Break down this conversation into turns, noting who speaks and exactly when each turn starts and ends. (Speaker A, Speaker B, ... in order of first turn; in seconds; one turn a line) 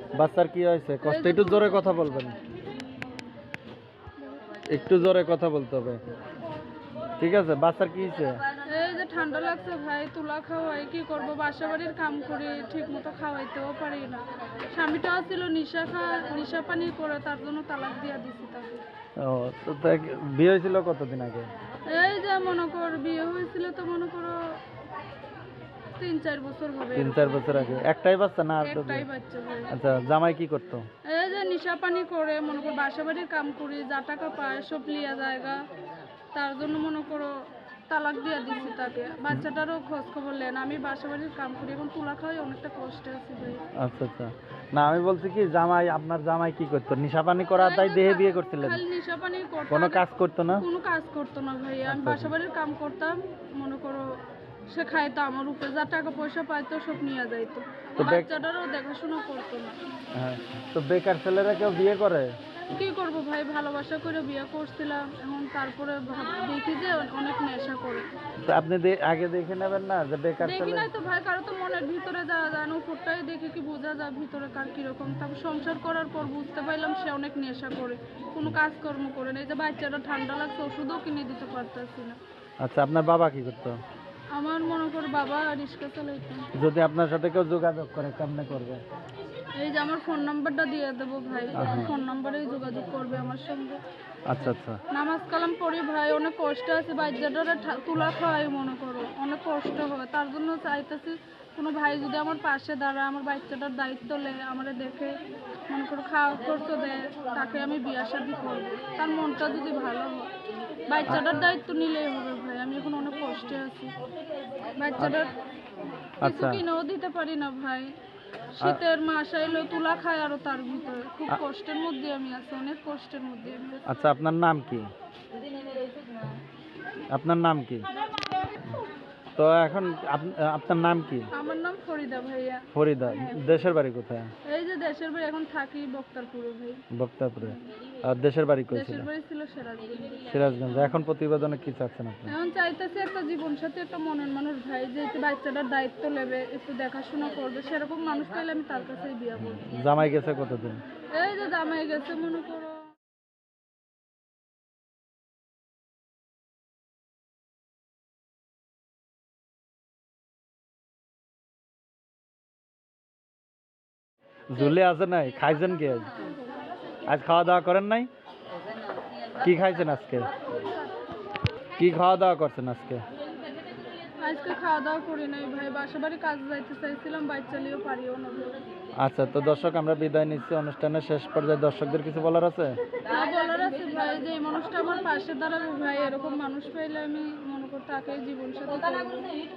Speaker A: 0.1-2.4
Speaker B: 1.0-1.9
Speaker A: 4.7-6.0
Speaker A: 7.2-8.4
Speaker B: 8.6-18.8
Speaker A: 19.2-21.5
Speaker B: 21.9-24.6
Speaker B: 26.0-27.9
Speaker A: 26.9-29.1
Speaker B: 28.6-29.7
Speaker A: 29.7-30.9
Speaker B: 31.1-35.6
Speaker B: 36.3-43.6
Speaker A: 43.8-48.8
Speaker B: 47.6-50.0
Speaker A: 49.7-50.6
Speaker B: 50.5-54.1
Speaker A: 51.9-52.3
Speaker B: 54.7-59.8
Speaker A: 58.0-58.3
Speaker A: 60.1-62.4
Speaker B: 62.7-68.1
Speaker A: 68.5-70.9
Speaker B: 70.4-82.2
Speaker A: 82.6-83.8
Speaker B: 84.3-86.5
Speaker A: 86.5-88.8
Speaker B: 89.5-93.8
Speaker A: 91.5-91.9
Speaker A: 94.3-94.8
Speaker B: 94.9-105.2
Speaker B: 105.7-110.3
Speaker B: 110.9-114.0
Speaker B: 114.7-115.3
Speaker A: 116.2-116.6
Speaker B: 116.2-118.0
Speaker B: 118.6-123.8
Speaker A: 123.9-124.9
Speaker A: 127.1-127.9
Speaker A: 129.4-131.3
Speaker B: 131.3-133.6
Speaker A: 132.7-134.3
Speaker B: 134.4-136.8
Speaker A: 136.9-139.1
Speaker B: 138.7-140.3
Speaker A: 140.3-142.3
Speaker B: 142.3-149.7
Speaker A: 149.5-150.8
Speaker B: 151.1-152.9
Speaker A: 164.5-166.1
Speaker A: 167.1-168.1
Speaker A: 169.4-170.3
Speaker B: 170.6-170.9
Speaker A: 171.8-173.0
Speaker B: 174.2-178.6
Speaker A: 179.0-182.8
Speaker B: 183.1-189.3